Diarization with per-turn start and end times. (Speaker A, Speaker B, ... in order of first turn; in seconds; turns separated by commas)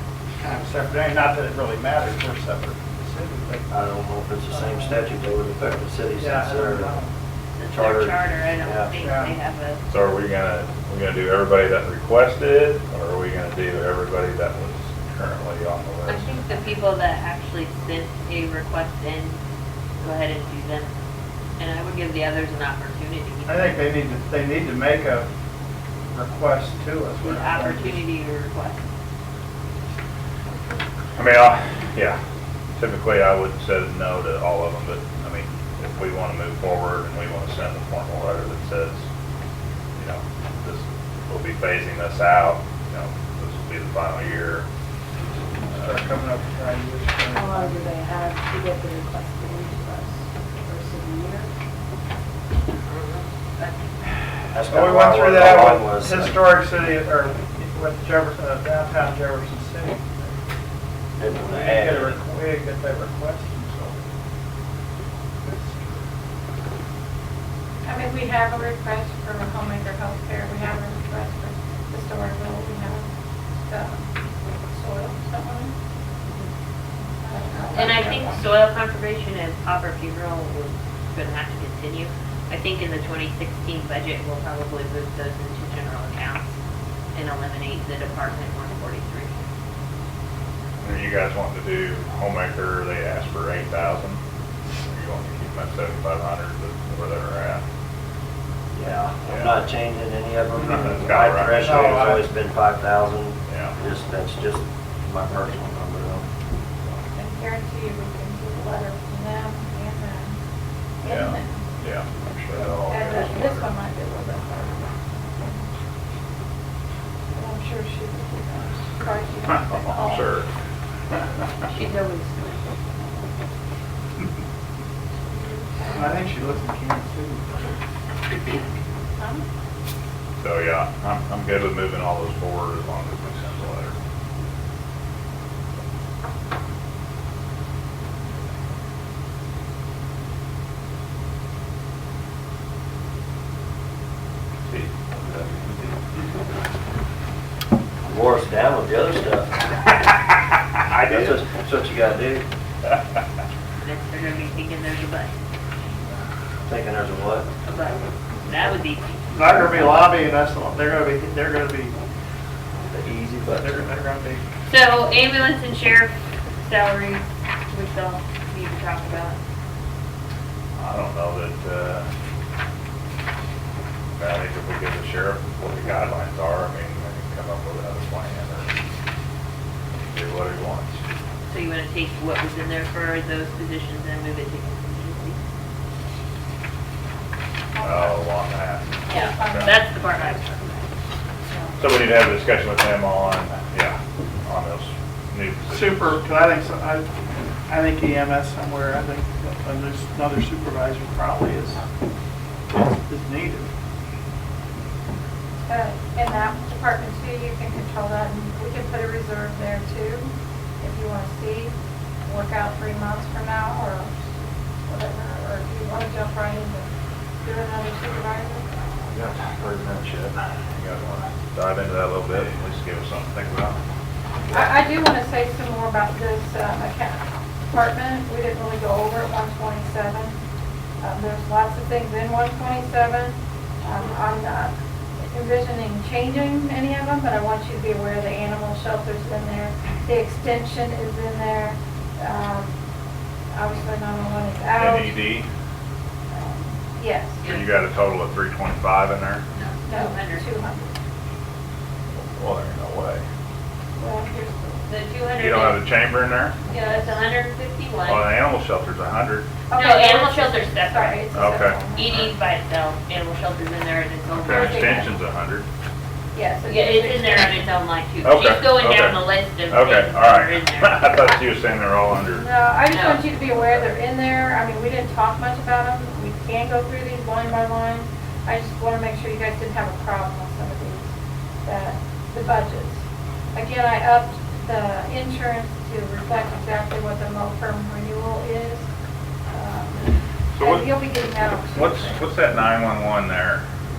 Speaker A: 0.4-3.7, Speaker B: 3.7-6.9, Speaker A: 4.5-5.0, Speaker A: 6.2-7.1, Speaker C: 7.6-9.8, Speaker B: 7.7-8.9, Speaker A: 9.0-9.4, Speaker D: 9.9-16.8, Speaker C: 16.1-19.4, Speaker C: 20.0-20.9, Speaker C: 21.6-23.8, Speaker A: 23.5-25.3, Speaker A: 26.1-28.0, Speaker C: 27.2-28.9, Speaker D: 31.2-32.2, Speaker D: 32.8-39.0, Speaker D: 40.0-44.6, Speaker D: 45.7-46.0, Speaker A: 45.8-47.8, Speaker E: 47.3-51.5, Speaker C: 52.9-53.8, Speaker B: 54.5-56.5, Speaker A: 54.7-60.4, Speaker B: 61.2-62.2, Speaker A: 61.4-64.0, Speaker A: 65.4-66.1, Speaker F: 67.8-73.1, Speaker F: 73.7-74.1, Speaker F: 74.7-75.8, Speaker F: 77.2-78.4, Speaker C: 77.7-86.5, Speaker C: 87.1-89.4, Speaker D: 90.8-94.2, Speaker D: 94.9-97.6, Speaker B: 98.7-106.3, Speaker D: 99.2-99.5, Speaker D: 100.6-102.0, Speaker A: 101.7-102.3, Speaker D: 103.5-103.8, Speaker F: 107.1-110.4, Speaker F: 111.0-111.6, Speaker D: 111.0-113.7, Speaker F: 112.9-115.7, Speaker F: 117.3-120.4, Speaker D: 119.7-120.5, Speaker C: 121.7-122.6, Speaker F: 125.3-126.3, Speaker A: 125.9-127.7, Speaker D: 130.4-133.9, Speaker D: 144.7-146.0, Speaker B: 148.1-149.7, Speaker B: 150.9-152.5, Speaker D: 150.9-151.4, Speaker C: 153.8-155.3, Speaker B: 156.6-157.5, Speaker C: 157.7-159.2, Speaker A: 159.3-162.0, Speaker A: 162.9-164.4, Speaker B: 163.1-163.8, Speaker C: 164.7-169.4, Speaker D: 170.8-172.1, Speaker D: 174.2-178.7, Speaker D: 179.9-180.9, Speaker C: 181.5-185.4, Speaker F: 187.7-188.2, Speaker D: 187.8-189.8, Speaker F: 189.1-189.8, Speaker C: 189.1-190.8, Speaker F: 191.5-191.8, Speaker D: 191.8-196.2, Speaker A: 195.7-197.1, Speaker A: 197.7-201.8, Speaker A: 203.1-203.7, Speaker F: 205.7-211.7, Speaker F: 212.2-214.3, Speaker F: 214.9-216.9, Speaker F: 217.4-218.7, Speaker D: 219.1-223.8, Speaker F: 224.5-230.4, Speaker F: 231.0-242.7, Speaker F: 243.5-245.3, Speaker D: 244.7-245.5, Speaker F: 246.3-247.4, Speaker D: 247.4-249.4, Speaker C: 249.5-250.5, Speaker F: 249.8-250.9, Speaker D: 252.2-253.2, Speaker F: 254.0-254.9, Speaker C: 254.9-255.8, Speaker D: 255.4-256.6, Speaker F: 256.7-257.1, Speaker C: 256.7-258.3, Speaker D: 258.0-259.5, Speaker F: 259.7-262.2, Speaker C: 259.7-261.2, Speaker D: 261.3-262.3, Speaker C: 262.0-265.0, Speaker D: 264.3-265.7, Speaker F: 264.4-265.1, Speaker F: 266.3-267.8, Speaker C: 266.6-271.3, Speaker D: 268.2-272.5, Speaker F: 272.3-281.1, Speaker C: 272.9-273.3, Speaker F: 281.6-283.0, Speaker F: 283.5-288.9, Speaker F: 289.5-292.2, Speaker D: 290.6-290.9, Speaker D: 291.7-293.6